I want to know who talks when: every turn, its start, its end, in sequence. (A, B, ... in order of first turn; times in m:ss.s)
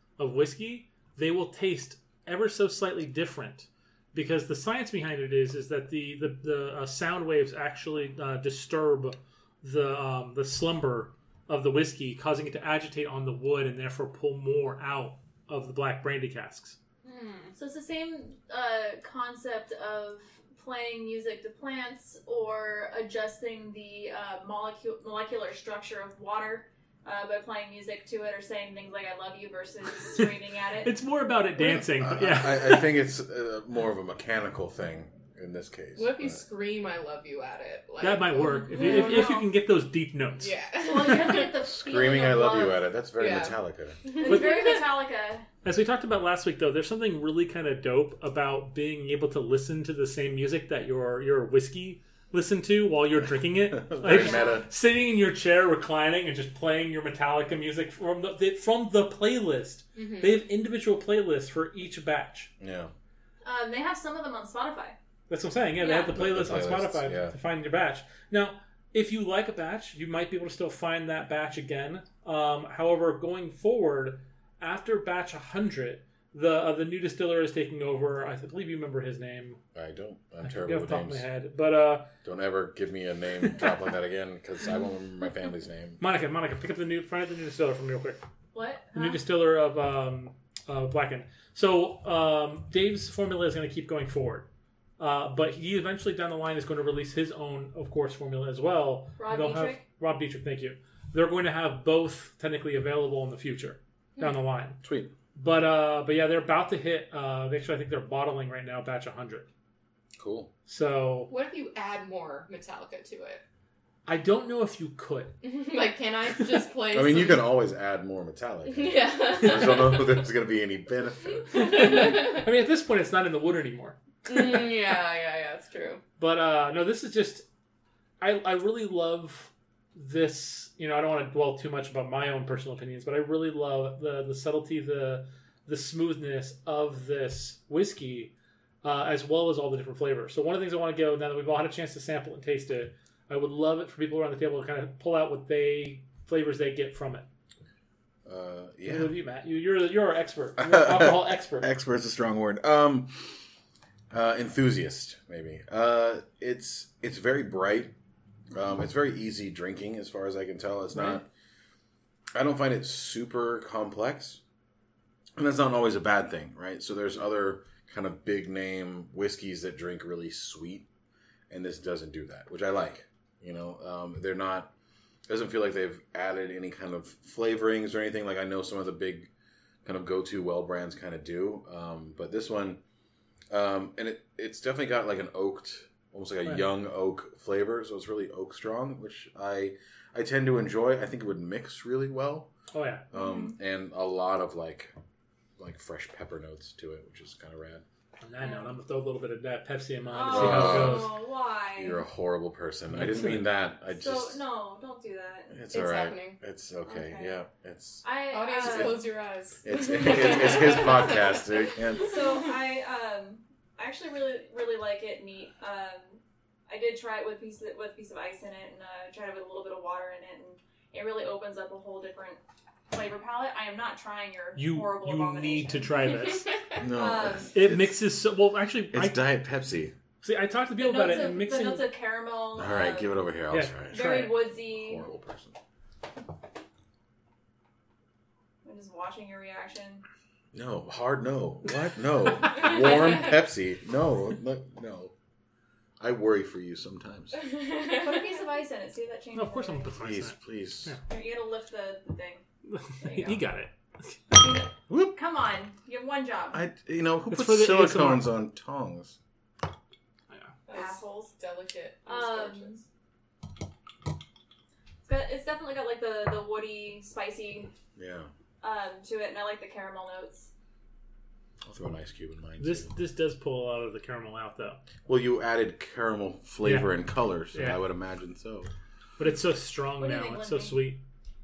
0:00.2-0:16.8 A
0:17.0-0:17.5 B
0:17.6-0:30.9 C
0:30.8-0:32.9 A
0:31.6-0:36.4 D
0:36.0-0:39.4 B
0:38.0-0:40.5 A
0:38.5-0:39.4 C
0:40.4-0:41.5 B
0:40.8-0:42.8 C
0:41.6-0:44.0 D
0:43.2-0:43.5 B
0:44.0-0:44.8 B
0:44.2-0:45.4 C
0:45.6-1:02.5 A
0:53.7-0:54.6 D
0:54.0-0:54.6 C
1:00.0-1:00.4 B
1:02.6-1:02.9 D
1:03.4-1:05.0 C
1:05.3-1:19.6 A
1:05.8-1:06.1 C
1:06.1-1:07.3 D
1:19.7-1:21.2 D
1:20.4-1:22.1 A
1:22.2-1:26.0 D
1:26.0-1:28.2 A
1:28.5-1:29.2 C
1:28.9-1:34.5 A
1:35.0-1:44.8 A
1:39.2-1:39.8 C
1:44.8-1:45.1 D
1:45.3-1:49.5 A
1:50.2-1:50.5 D
1:50.7-1:51.3 A
1:51.3-1:53.4 B
1:54.0-1:55.4 A
1:55.4-1:57.4 B
1:56.9-2:02.0 D
1:58.6-2:00.2 B
1:59.4-1:59.7 A
2:01.5-2:02.4 B
2:01.5-2:04.0 A
2:04.2-2:06.0 B
2:06.2-2:07.4 A
2:08.2-2:18.3 A
2:18.8-2:27.2 A
2:28.2-2:29.1 D
2:28.8-2:31.7 A
2:30.6-2:33.1 D
2:34.1-2:37.9 D
2:38.5-2:41.2 D
2:40.9-2:41.2 A
2:42.3-2:44.4 D
2:45.4-2:50.9 D
2:51.5-2:54.7 D
2:55.3-2:59.3 D
2:59.8-3:02.8 D
3:03.5-3:12.5 D
3:12.7-3:13.0 A
3:13.1-3:14.9 D
3:13.1-3:13.6 C
3:15.6-3:17.8 D
3:18.2-3:21.1 A
3:18.4-3:18.7 C
3:20.1-3:22.0 C
3:20.3-3:21.1 D
3:21.7-3:24.4 D
3:22.9-3:23.5 A
3:23.9-3:25.6 C
3:25.5-3:28.0 D
3:25.7-3:26.4 B
3:26.8-3:27.4 C
3:28.0-3:29.1 C
3:28.3-3:31.4 B
3:28.6-3:29.0 D
3:29.6-3:32.1 D
3:32.0-3:42.4 C
3:42.9-3:46.0 C
3:44.6-3:46.5 A
3:46.2-3:46.8 B
3:46.8-3:48.0 D
3:46.9-3:47.5 C
3:47.5-3:49.2 A
3:48.9-3:49.9 D
3:50.2-3:51.9 A
3:50.8-3:53.2 C
3:52.6-3:55.6 D
3:53.5-3:54.4 A
3:53.9-3:55.0 C
3:58.6-4:00.0 C
4:00.5-4:05.1 D
4:06.0-4:07.4 D
4:07.4-4:08.3 B
4:07.9-4:09.9 C
4:09.3-4:11.0 A
4:10.0-4:10.9 D
4:11.1-4:12.4 C
4:12.7-4:14.4 A
4:13.0-4:13.4 C
4:14.3-4:16.6 C
4:14.9-4:15.1 D
4:16.5-4:19.2 D
4:17.3-4:18.3 A
4:20.7-4:22.8 B
4:20.7-4:21.3 C
4:22.0-4:22.8 C
4:25.0-4:27.7 C
4:28.0-4:28.3 D
4:28.6-4:30.5 C
4:31.6-4:32.9 D
4:32.6-4:34.8 A
4:35.0-4:38.7 D
4:36.6-4:36.9 A
4:37.5-4:37.8 A
4:39.2-4:41.0 A
4:40.0-4:40.8 C